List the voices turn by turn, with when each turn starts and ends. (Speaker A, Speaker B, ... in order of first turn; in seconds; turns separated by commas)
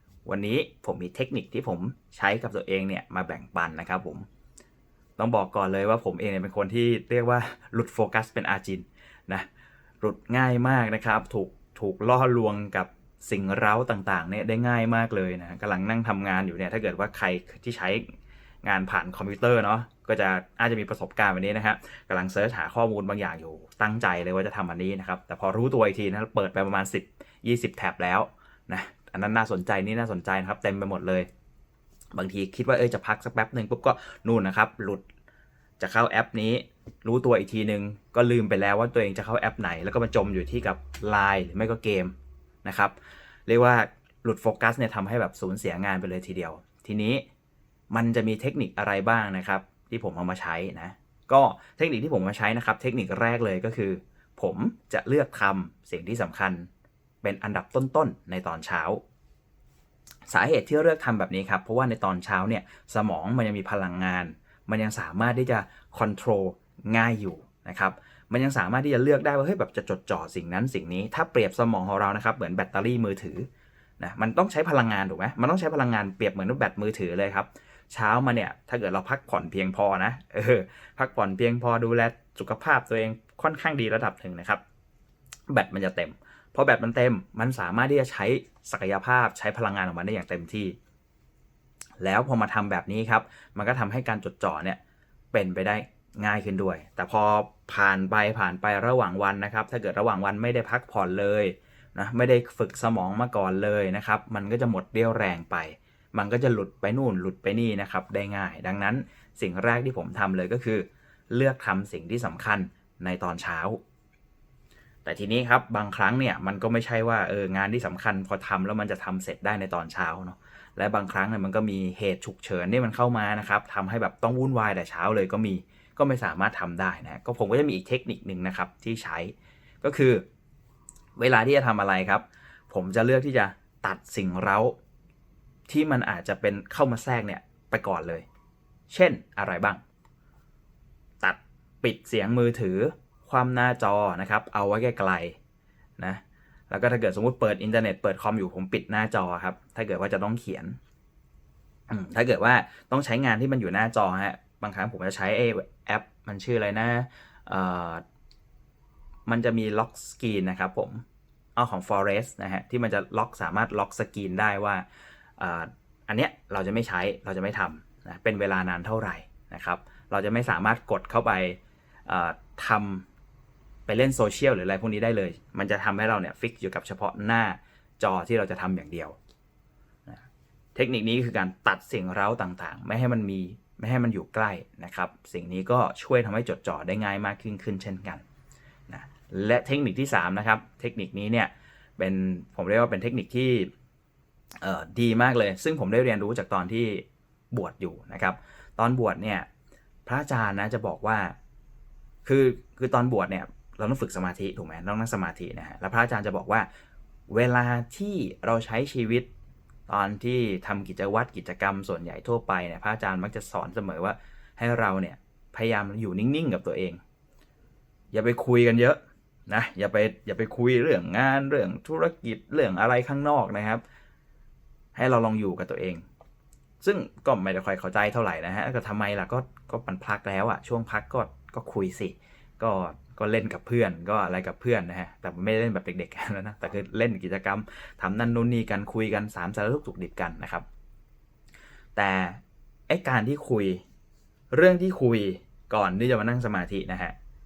Speaker A: 0.2-4.2, Speaker A: 5.2-9.5, Speaker A: 10.0-31.3, Speaker A: 32.1-35.0, Speaker A: 35.8-42.9, Speaker A: 43.5-47.2, Speaker A: 47.9-56.7, Speaker A: 57.2-59.0, Speaker A: 60.3-73.5, Speaker A: 74.0-84.6, Speaker A: 85.5-90.8, Speaker A: 92.0-94.8, Speaker A: 95.3-113.8, Speaker A: 115.0-130.2, Speaker A: 131.2-134.8, Speaker A: 135.7-138.2, Speaker A: 138.9-139.8, Speaker A: 141.2-145.4, Speaker A: 146.0-150.8, Speaker A: 151.9-158.0, Speaker A: 159.3-161.0, Speaker A: 161.6-164.8, Speaker A: 165.4-173.1, Speaker A: 173.9-179.2, Speaker A: 180.7-188.2, Speaker A: 188.9-193.7, Speaker A: 194.6-199.5, Speaker A: 200.1-201.3, Speaker A: 202.2-206.7, Speaker A: 207.3-209.3, Speaker A: 209.9-217.0, Speaker A: 218.1-223.8, Speaker A: 224.9-226.0, Speaker A: 226.8-240.7, Speaker A: 241.9-243.8, Speaker A: 244.5-247.1